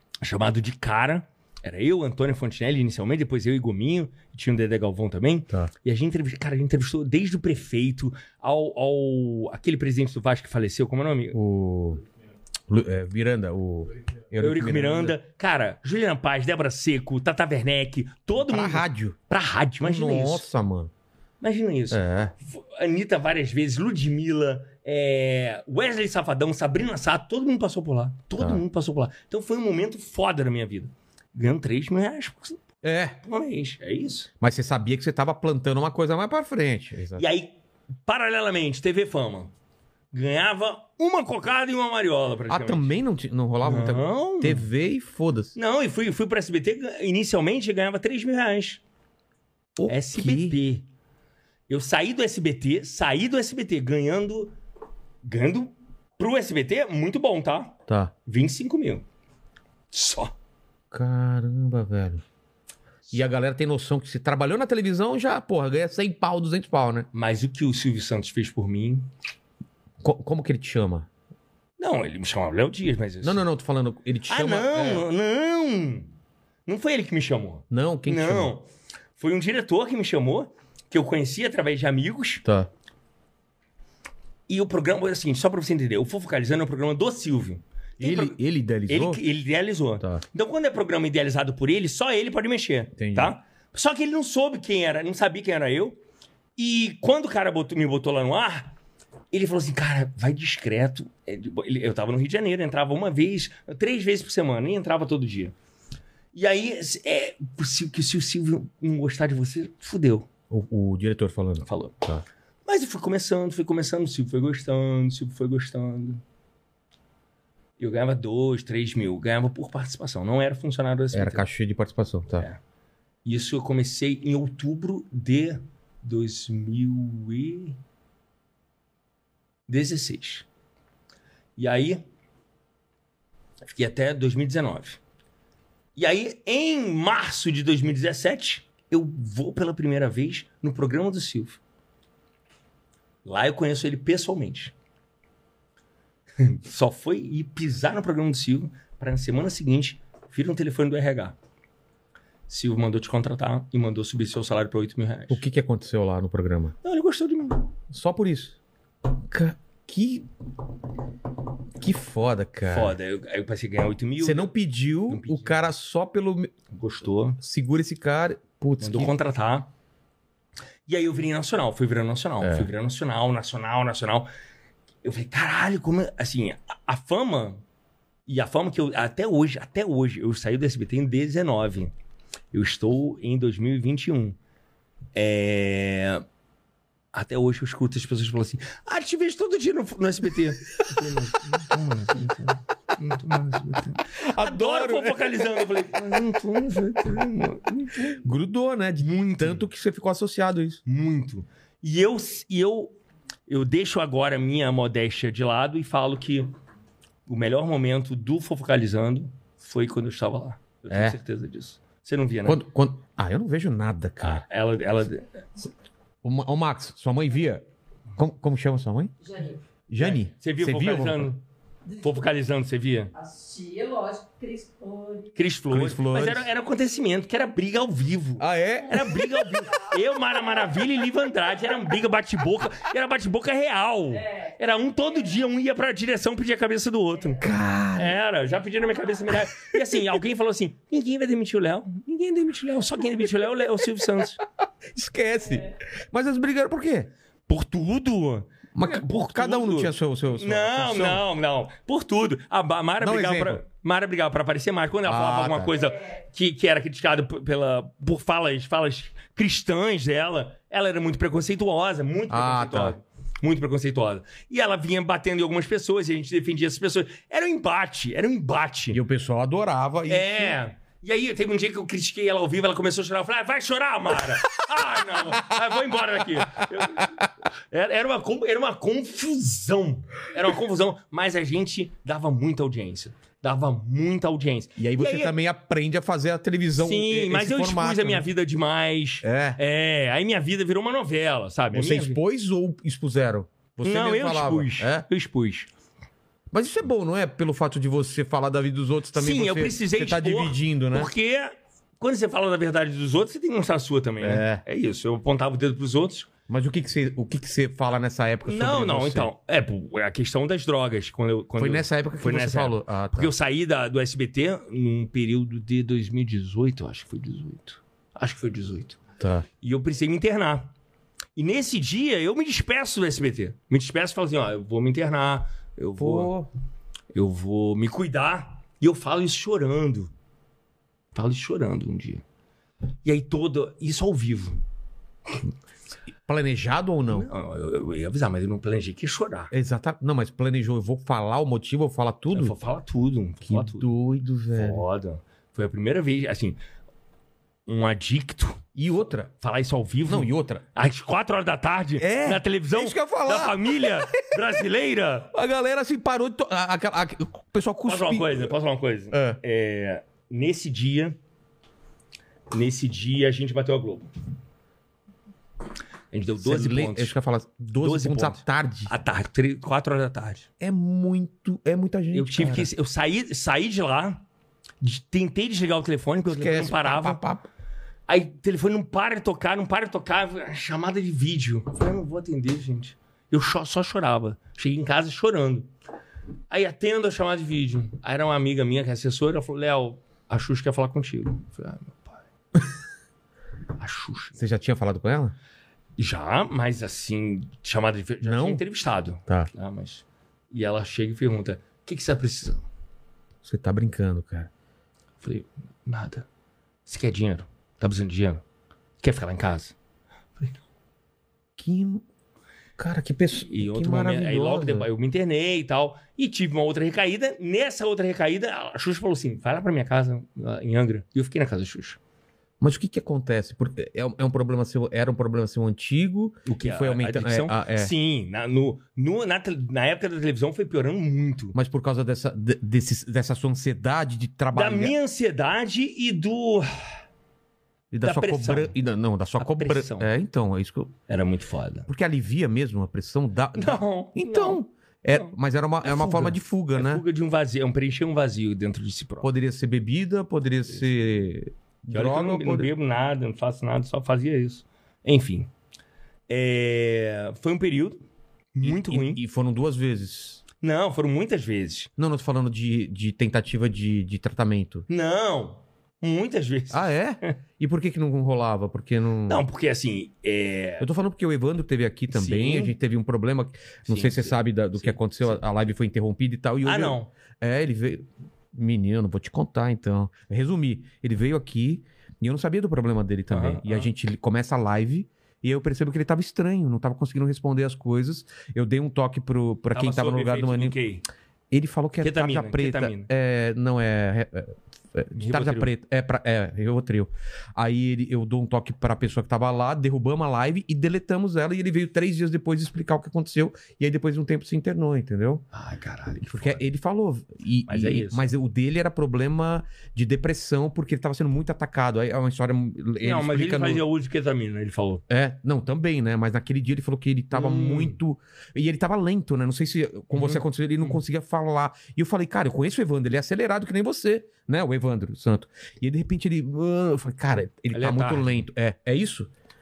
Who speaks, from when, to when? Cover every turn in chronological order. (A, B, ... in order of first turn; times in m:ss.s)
0:00.2-0:11.4 A
0:11.3-0:12.0 B
0:12.7-0:15.2 B
0:14.4-0:20.5 A
0:18.4-0:19.2 B
0:19.8-0:20.9 B
0:21.4-0:32.6 A
0:21.9-0:22.3 B
0:28.4-0:28.6 B
0:32.8-0:33.2 B
0:33.2-0:34.3 A
0:34.4-0:37.2 B
0:37.2-0:37.5 A
0:38.1-0:39.5 A
0:40.1-0:43.0 A
0:42.5-0:45.6 B
0:43.6-0:44.7 A
0:45.6-0:48.8 A
0:49.8-0:50.6 B
0:49.9-0:50.9 A
0:51.7-0:54.5 A
0:55.2-0:57.8 A
0:57.9-0:58.1 B
0:58.3-0:59.0 A
0:59.9-1:00.3 A
1:00.9-1:02.2 B
1:03.1-1:07.1 B
1:07.1-1:09.1 A
1:10.0-1:11.1 B
1:11.8-1:13.4 A
1:13.2-1:15.1 B
1:14.3-1:16.1 A
1:16.7-1:18.7 A
1:17.7-1:18.5 B
1:19.2-1:22.4 A
1:24.5-1:36.0 A
1:28.0-1:29.2 B
1:33.0-1:33.3 B
1:36.6-1:38.7 A
1:39.3-1:45.5 A
1:46.3-1:50.3 A
1:50.5-1:52.2 B
1:51.7-1:52.1 A
1:52.7-1:56.2 A
1:57.8-2:01.4 A
2:01.1-2:02.5 B
2:03.2-2:07.8 A
2:09.7-2:10.5 A
2:11.6-2:12.0 A
2:13.7-2:15.0 A
2:16.0-2:21.6 A
2:23.2-2:24.7 A
2:26.4-2:31.4 A
2:32.5-2:35.4 A
2:35.3-2:36.8 B
2:36.8-2:37.7 A
2:37.9-2:40.3 B
2:41.8-2:43.0 B
2:42.7-2:44.5 A
2:44.2-2:46.5 B
2:45.1-2:45.6 A
2:46.7-2:47.4 A
2:47.4-2:49.1 B
2:48.8-2:49.7 A
2:50.9-2:54.3 A
2:52.4-2:52.7 B
2:55.0-2:57.6 A
2:58.3-3:01.9 A
3:02.5-3:04.4 A
3:05.2-3:06.2 A
3:07.1-3:18.3 A
3:14.2-3:15.4 B
3:18.2-3:20.8 B
3:19.0-3:19.7 A
3:20.9-3:22.9 A
3:23.5-3:26.5 A
3:27.3-3:32.6 A
3:30.9-3:31.2 B
3:32.4-3:34.5 B
3:34.2-3:35.7 A
3:36.2-3:37.6 B
3:38.2-3:39.1 B
3:39.2-3:39.6 C
3:39.9-3:41.3 B
3:40.0-3:41.4 A
3:42.0-3:43.1 A
3:43.1-3:45.5 C
3:45.4-3:57.4 A
3:45.7-3:46.5 B
3:48.4-3:49.4 B
3:54.2-3:54.5 C
3:57.4-3:58.2 B
3:58.0-4:04.4 A
3:59.6-3:59.8 B
4:04.9-4:07.1 B
4:07.5-4:29.0 A
4:08.8-4:11.2 B
4:13.0-4:13.6 B
4:15.0-4:15.7 B
4:22.3-4:23.0 B
4:28.9-4:30.6 B
4:30.1-4:45.3 A
4:35.3-4:35.6 B
4:36.4-4:37.1 B
4:44.8-4:48.3 B
4:46.8-4:52.2 A
4:49.2-4:49.6 B
4:51.7-4:55.1 B
4:53.8-4:55.7 A
4:56.5-5:01.1 B
4:59.1-5:06.3 A
5:04.2-5:04.6 B
5:06.5-5:09.3 B
5:08.5-5:19.0 A
5:11.6-5:13.3 B
5:19.2-5:19.5 B
5:19.6-5:20.7 A
5:21.4-5:26.3 A
5:26.0-5:26.5 B
5:27.1-5:30.1 A
5:31.1-5:32.2 A
5:33.0-5:34.6 A
5:36.3-5:37.3 B
5:37.1-5:39.5 A
5:39.5-5:42.6 B
5:42.3-5:43.9 A
5:43.5-5:44.8 B
5:44.5-5:46.6 A
5:47.7-5:48.6 A
5:48.8-5:49.3 B
5:49.4-5:55.3 A
5:50.1-5:50.6 B
5:52.0-5:54.3 B
5:55.3-5:58.6 B
5:57.9-6:01.2 A
5:59.1-5:59.4 B
6:02.5-6:04.1 A
6:06.1-6:07.2 A
6:06.4-6:08.9 B
6:07.8-6:10.5 A
6:10.6-6:12.7 B
6:12.1-6:14.2 A
6:14.8-6:17.2 A
6:16.3-6:17.5 B
6:18.1-6:25.7 A
6:26.5-6:32.2 A
6:33.8-6:34.5 A
6:34.4-6:35.4 B
6:36.0-6:42.6 A
6:38.2-6:38.6 B
6:43.4-6:44.5 B
6:45.2-6:46.3 A
6:46.9-6:48.4 A
6:49.0-6:49.8 A
6:51.6-6:52.0 B
6:52.8-6:54.9 B
6:53.5-7:02.0 A
7:02.6-7:07.9 B
7:06.5-7:11.6 A
7:11.6-7:15.0 B
7:14.5-7:16.7 A
7:17.9-7:20.9 B
7:18.0-7:18.8 A
7:19.4-7:20.1 A
7:21.1-7:21.9 A
7:21.9-7:27.0 B
7:23.6-7:29.3 A
7:29.2-7:32.7 B
7:31.9-7:35.5 A
7:36.3-7:38.0 A
7:38.6-7:39.2 A
7:38.6-7:40.4 B
7:40.6-7:41.9 A
7:42.0-7:44.9 B
7:44.9-7:47.4 A
7:46.7-7:49.4 B
7:49.3-7:50.9 A
7:50.8-8:10.8 B
7:52.1-7:52.8 A
7:53.8-7:55.4 A
7:56.6-7:57.1 A
8:03.3-8:03.9 A
8:09.7-8:11.0 A
8:11.5-8:25.4 B
8:12.0-8:13.1 A
8:15.2-8:15.7 A
8:25.5-8:26.6 A
8:26.2-8:33.8 B
8:27.7-8:28.3 A
8:33.0-8:35.0 A
8:35.1-8:49.3 B
8:37.3-8:38.0 A
8:40.2-8:40.9 A
8:47.7-8:48.4 A